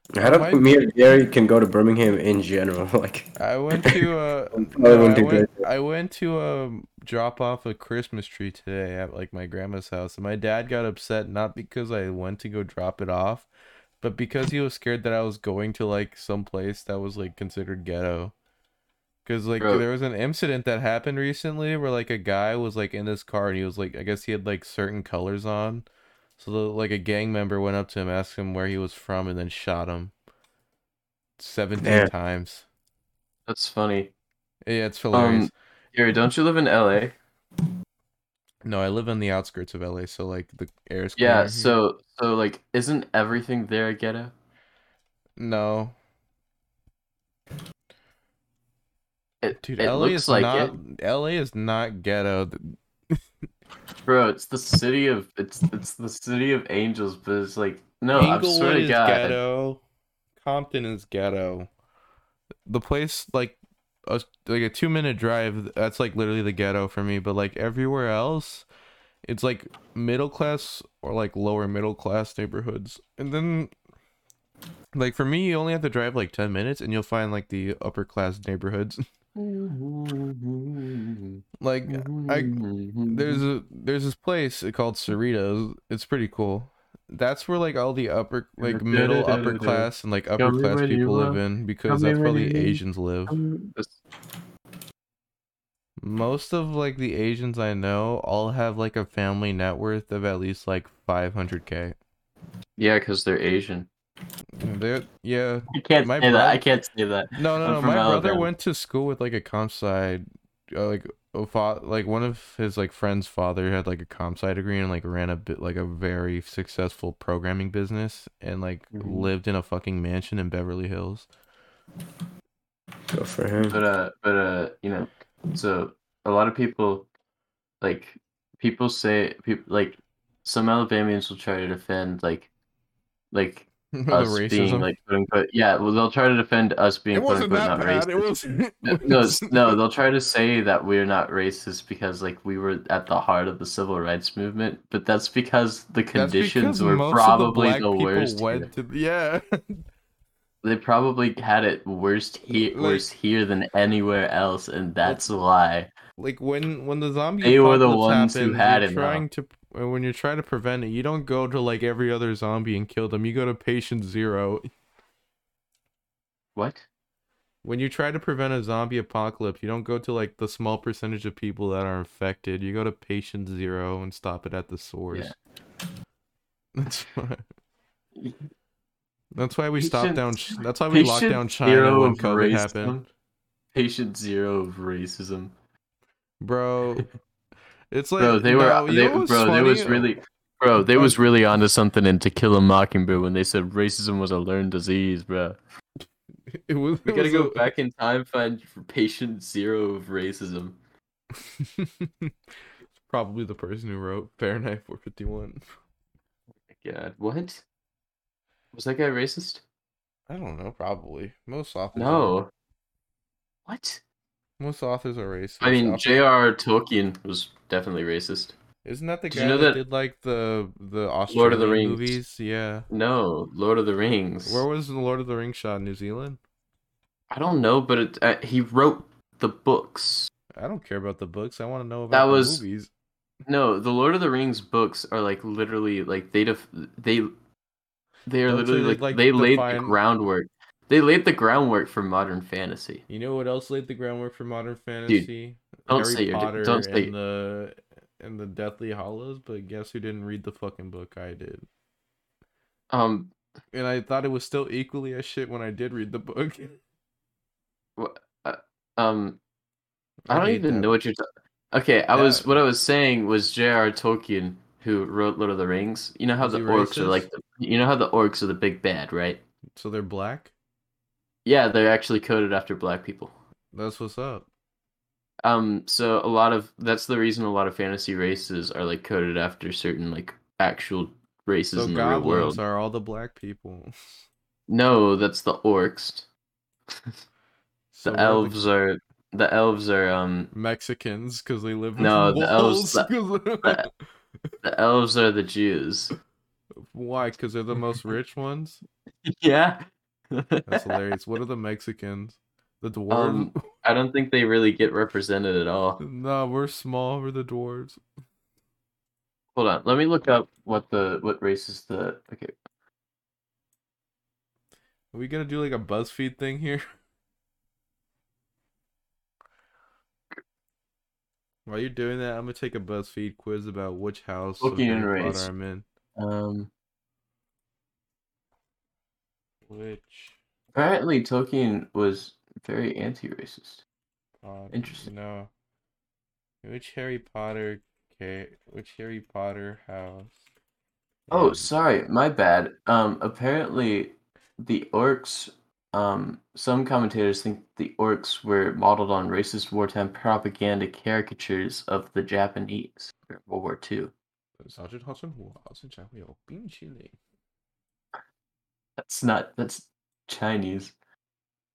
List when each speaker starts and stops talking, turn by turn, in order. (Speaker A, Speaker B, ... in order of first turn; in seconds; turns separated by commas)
Speaker A: 0.1-4.0, Speaker B: 0.2-0.7, Speaker B: 3.4-13.5, Speaker A: 4.5-5.6, Speaker B: 14.0-18.3, Speaker B: 19.2-25.9, Speaker B: 26.4-30.1, Speaker B: 31.4-32.6, Speaker A: 31.8-32.1, Speaker C: 33.5-34.1, Speaker B: 34.6-35.5, Speaker C: 35.1-37.1, Speaker B: 38.6-41.8, Speaker C: 41.2-44.3, Speaker B: 45.4-45.9, Speaker C: 49.4-50.7, Speaker B: 49.6-53.2, Speaker C: 54.0-59.4, Speaker B: 58.1-59.8, Speaker B: 60.4-61.7, Speaker B: 62.7-68.7, Speaker B: 69.2-73.7, Speaker B: 74.9-79.0, Speaker C: 79.3-83.4, Speaker B: 81.6-93.4, Speaker C: 88.6-94.0, Speaker B: 96.0-102.0, Speaker C: 102.8-103.9, Speaker B: 104.6-106.6, Speaker C: 105.7-108.5, Speaker B: 107.3-121.3, Speaker C: 118.9-119.3, Speaker A: 123.1-123.8, Speaker C: 123.6-127.1, Speaker C: 127.8-132.5, Speaker C: 133.3-138.3, Speaker B: 133.9-134.9, Speaker B: 137.1-139.8, Speaker C: 138.8-148.7, Speaker B: 146.1-149.8, Speaker C: 150.6-155.9, Speaker B: 152.6-153.0, Speaker B: 156.2-164.7, Speaker C: 157.4-159.2, Speaker C: 166.6-166.9, Speaker B: 167.6-175.3, Speaker B: 176.8-177.4, Speaker C: 178.2-178.4, Speaker B: 179.3-183.0, Speaker C: 179.8-180.3, Speaker C: 180.9-183.0, Speaker C: 183.7-185.5, Speaker B: 186.4-187.1, Speaker B: 187.9-190.1, Speaker C: 188.2-195.6, Speaker B: 196.5-197.7, Speaker C: 197.0-200.8, Speaker B: 201.4-202.3, Speaker B: 203.0-205.6, Speaker C: 206.7-207.6, Speaker C: 208.7-209.6, Speaker B: 210.3-212.3, Speaker C: 211.9-212.5, Speaker C: 213.7-214.0, Speaker B: 214.6-216.2, Speaker C: 215.6-218.6, Speaker B: 218.8-222.9, Speaker C: 219.3-219.8, Speaker C: 221.3-222.2, Speaker C: 222.9-224.6, Speaker B: 224.4-226.4, Speaker C: 227.3-230.3, Speaker B: 230.6-232.9, Speaker C: 232.1-232.6, Speaker C: 233.4-237.3, Speaker C: 238.2-243.0, Speaker B: 238.5-239.9, Speaker B: 243.1-251.7, Speaker C: 245.9-247.1, Speaker C: 252.9-253.3, Speaker B: 253.7-256.8, Speaker C: 258.0-259.4, Speaker B: 260.3-260.9, Speaker C: 260.3-269.4, Speaker B: 262.1-262.5, Speaker B: 266.4-267.2, Speaker B: 269.8-270.5, Speaker C: 271.4-273.3, Speaker B: 273.7-274.5, Speaker C: 275.4-282.6, Speaker B: 281.7-283.9, Speaker C: 284.7-286.3, Speaker B: 287.9-288.6, Speaker C: 288.0-290.5, Speaker B: 290.5-293.9, Speaker C: 292.0-293.1, Speaker C: 294.6-296.1, Speaker B: 296.9-298.8, Speaker C: 299.2-300.9, Speaker B: 300.7-303.6, Speaker C: 303.1-306.0, Speaker B: 306.0-308.0, Speaker C: 309.5-312.5, Speaker B: 315.1-316.9, Speaker B: 321.6-325.8, Speaker C: 324.6-325.5, Speaker C: 326.2-326.7, Speaker B: 329.7-330.4, Speaker C: 330.7-333.8, Speaker B: 334.4-335.5, Speaker C: 334.7-335.1, Speaker B: 336.6-340.4, Speaker B: 341.3-341.7, Speaker C: 341.3-354.1, Speaker B: 354.6-357.1, Speaker C: 359.0-360.9